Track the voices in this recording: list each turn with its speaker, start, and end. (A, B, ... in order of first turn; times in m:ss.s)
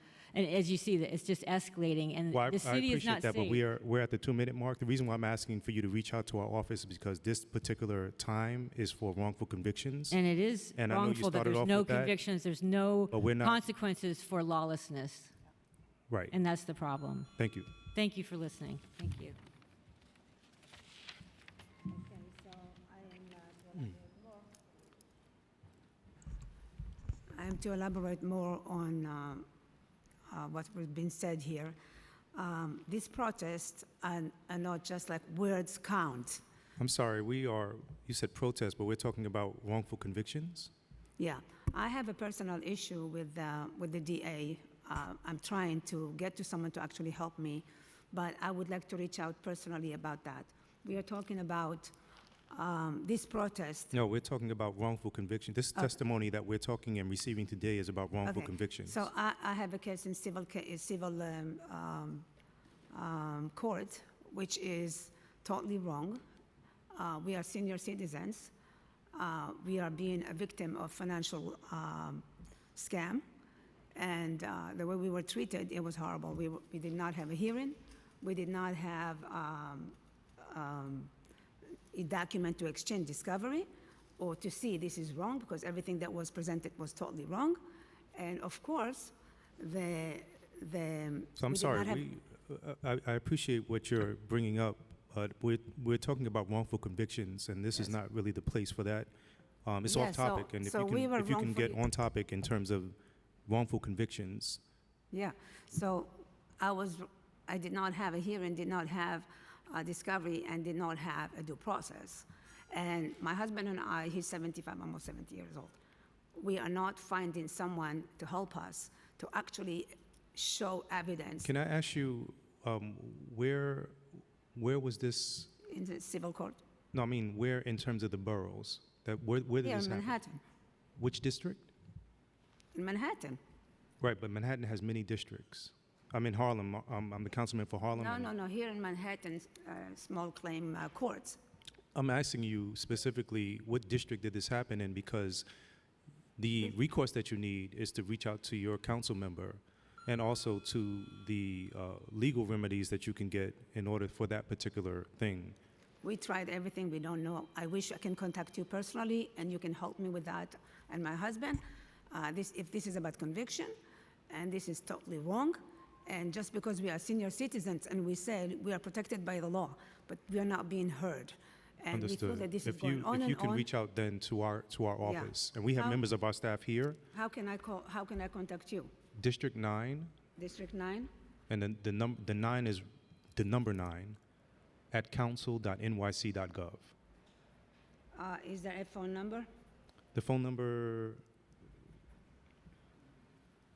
0:00.3-0:03.6 A
0:02.3-0:10.2 B
0:10.1-0:15.3 A
0:10.8-0:12.2 B
0:13.1-0:13.6 B
0:16.3-0:17.3 A
0:17.4-0:17.7 B
0:17.9-0:19.4 A
0:21.9-0:24.6 C
0:27.3-0:29.5 C
0:30.3-0:31.8 C
0:32.3-0:36.4 C
0:36.8-0:40.7 B
0:41.2-0:52.0 C
0:52.5-0:53.9 C
0:53.9-0:59.0 B
0:58.2-1:02.3 C
1:02.9-1:06.2 C
1:06.9-1:08.5 C
1:09.1-1:13.2 C
1:14.0-1:21.1 C
1:21.9-1:27.6 C
1:28.1-1:32.1 C
1:31.4-1:39.1 B
1:39.6-1:43.0 B
1:39.8-1:41.8 C
1:43.5-1:44.6 B
1:45.1-1:55.8 C
1:56.4-2:01.5 C
2:01.4-2:04.0 B
2:04.5-2:05.5 B
2:05.6-2:06.6 C
2:06.9-2:10.2 B
2:09.6-2:10.4 C
2:11.0-2:11.7 B
2:12.7-2:13.4 C
2:14.0-2:18.3 B
2:17.9-2:21.4 C
2:22.0-2:25.5 B
2:26.4-2:35.6 B
2:36.0-2:43.7 C
2:44.3-2:53.7 C
2:51.9-2:57.0 B
2:55.0-2:56.0 C
2:57.1-2:58.9 C
2:59.2-3:00.1 B
3:00.4-3:01.1 C
3:01.5-3:04.2 B
3:04.9-3:06.9 B
3:08.1-3:09.5 C
3:10.1-3:11.2 B